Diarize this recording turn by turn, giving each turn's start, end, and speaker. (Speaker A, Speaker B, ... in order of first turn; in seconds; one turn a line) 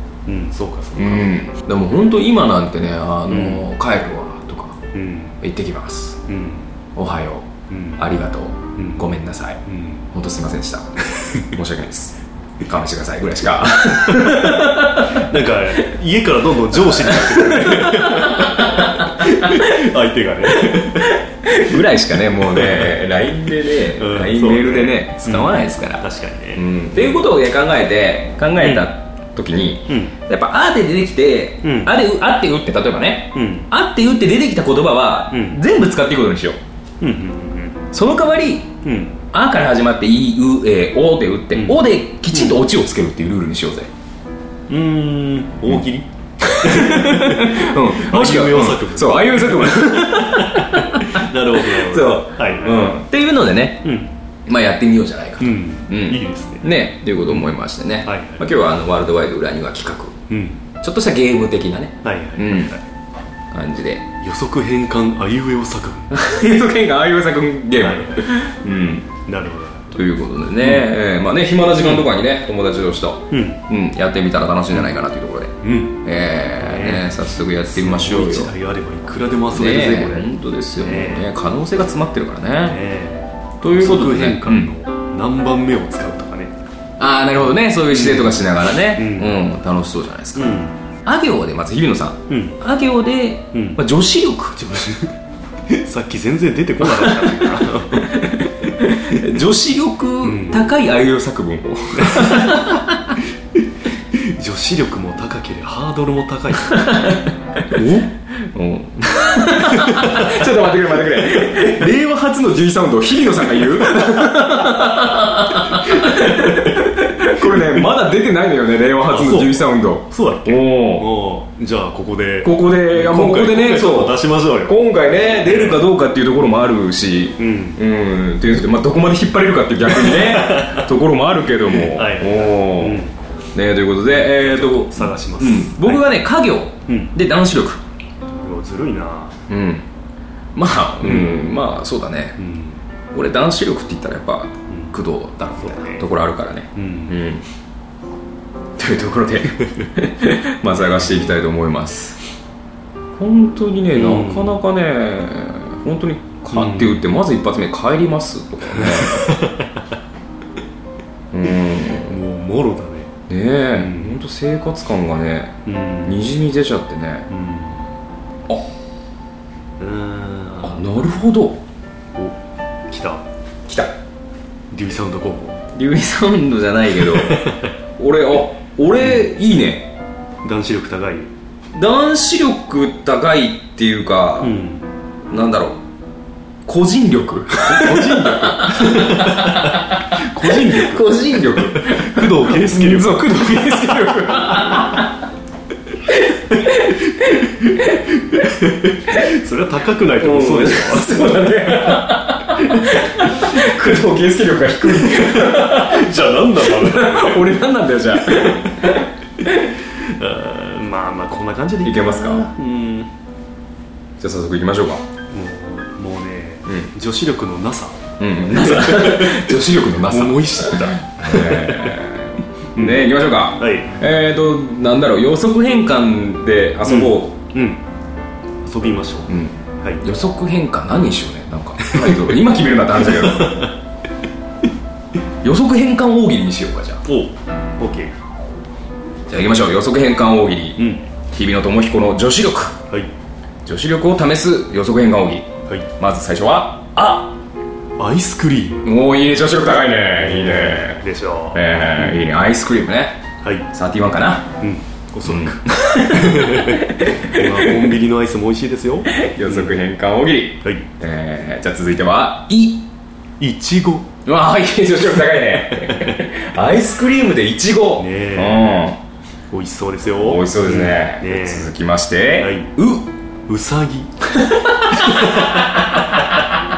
Speaker A: 0.2-1.3
Speaker B: 0.9-4.8
Speaker A: 3.3-3.6
Speaker A: 4.9-5.3
Speaker B: 5.4-6.2
Speaker A: 6.3-6.7
Speaker B: 7.0-9.6
Speaker A: 7.7-8.0
Speaker A: 8.8-9.1
Speaker A: 9.7-10.0
Speaker B: 10.1-15.2
Speaker A: 14.2-21.1
Speaker B: 16.8-19.7
Speaker B: 20.6-26.0
Speaker A: 22.5-23.0
Speaker A: 23.9-27.2
Speaker B: 26.5-36.6
Speaker A: 28.6-28.9
Speaker A: 29.9-30.1
Speaker A: 31.6-31.9
Speaker A: 33.3-33.7
Speaker A: 35.3-35.6
Speaker A: 37.0-37.8
Speaker B: 37.9-38.7
Speaker A: 38.8-39.1
Speaker B: 39.3-43.9
Speaker A: 41.5-42.6
Speaker A: 44.7-53.0
Speaker B: 46.4-53.9
Speaker A: 53.8-54.1
Speaker B: 54.5-60.1
Speaker A: 55.4-56.7
Speaker A: 57.2-57.5
Speaker A: 58.0-58.4
Speaker A: 60.3-60.6
Speaker B: 60.8-62.7
Speaker A: 62.0-62.9
Speaker B: 63.5-64.0
Speaker A: 64.2-66.1
Speaker B: 66.1-69.1
Speaker A: 67.8-68.3
Speaker A: 69.2-69.9
Speaker B: 69.9-78.5
Speaker A: 71.8-72.1
Speaker A: 73.3-73.6
Speaker A: 75.6-76.0
Speaker A: 76.6-77.1
Speaker A: 77.7-81.3
Speaker B: 79.5-82.8
Speaker A: 82.7-86.5
Speaker B: 83.6-84.7
Speaker B: 87.0-95.0
Speaker A: 87.9-88.4
Speaker A: 88.9-89.4
Speaker A: 90.3-90.8
Speaker A: 92.3-92.6
Speaker A: 93.5-93.8
Speaker A: 95.7-98.1
Speaker B: 96.8-103.2
Speaker A: 100.2-100.6
Speaker A: 102.0-102.8
Speaker A: 104.1-106.9
Speaker B: 106.6-107.3
Speaker A: 107.7-108.1
Speaker B: 108.5-121.1
Speaker A: 109.7-110.3
Speaker A: 111.8-112.1
Speaker A: 113.6-116.1
Speaker A: 117.4-117.8
Speaker A: 119.1-124.8
Speaker B: 122.4-137.8
Speaker A: 125.4-125.8
Speaker A: 127.4-127.8
Speaker A: 129.9-130.9
Speaker A: 131.7-133.1
Speaker A: 134.1-136.2
Speaker A: 136.9-137.1
Speaker A: 138.3-139.3
Speaker B: 139.5-139.8
Speaker B: 140.5-142.4
Speaker A: 141.0-141.4
Speaker A: 142.4-142.8
Speaker B: 143.1-147.4
Speaker A: 145.6-146.1
Speaker A: 146.7-147.2
Speaker B: 148.8-152.2
Speaker A: 150.8-151.4
Speaker B: 153.2-159.4
Speaker A: 153.9-154.6
Speaker A: 156.5-157.0
Speaker A: 158.7-159.7
Speaker B: 161.3-162.2
Speaker A: 162.0-163.1
Speaker B: 163.3-167.3
Speaker A: 163.7-164.2
Speaker A: 165.7-166.2
Speaker A: 167.3-167.9
Speaker A: 169.8-170.9
Speaker B: 170.6-171.6
Speaker A: 172.9-173.2
Speaker B: 173.7-173.9
Speaker A: 174.7-175.6
Speaker B: 175.7-179.9
Speaker A: 177.1-177.7
Speaker A: 179.0-179.2
Speaker A: 180.4-181.3
Speaker B: 181.7-184.6
Speaker A: 184.4-184.8
Speaker B: 185.3-185.8
Speaker B: 186.7-195.1
Speaker A: 187.6-191.2
Speaker A: 191.7-194.6
Speaker B: 196.1-198.0
Speaker A: 197.7-201.5
Speaker B: 200.2-209.1
Speaker A: 205.1-207.6
Speaker A: 209.8-213.1
Speaker B: 211.8-212.5
Speaker B: 214.2-215.0
Speaker A: 215.3-219.5
Speaker B: 218.2-227.3
Speaker A: 220.1-222.0
Speaker A: 222.7-223.9
Speaker A: 226.8-227.8
Speaker A: 228.6-230.0
Speaker B: 229.3-233.7
Speaker A: 231.8-232.3
Speaker A: 233.1-233.7
Speaker B: 235.4-237.0
Speaker A: 237.0-238.1
Speaker B: 239.3-242.8
Speaker A: 240.8-241.0
Speaker B: 243.6-245.5
Speaker B: 246.0-247.3
Speaker A: 248.0-248.9
Speaker B: 248.8-251.0
Speaker A: 250.2-252.2
Speaker B: 251.5-253.2
Speaker A: 253.4-253.7
Speaker B: 253.7-254.5
Speaker A: 254.6-259.7
Speaker B: 255.2-257.9
Speaker B: 259.2-262.9
Speaker A: 263.4-264.1
Speaker B: 264.2-269.0
Speaker A: 265.8-266.2
Speaker A: 268.0-268.7
Speaker A: 269.5-271.7
Speaker B: 270.2-273.1
Speaker A: 272.4-272.7
Speaker A: 273.5-274.1
Speaker B: 274.4-276.2
Speaker A: 274.9-275.7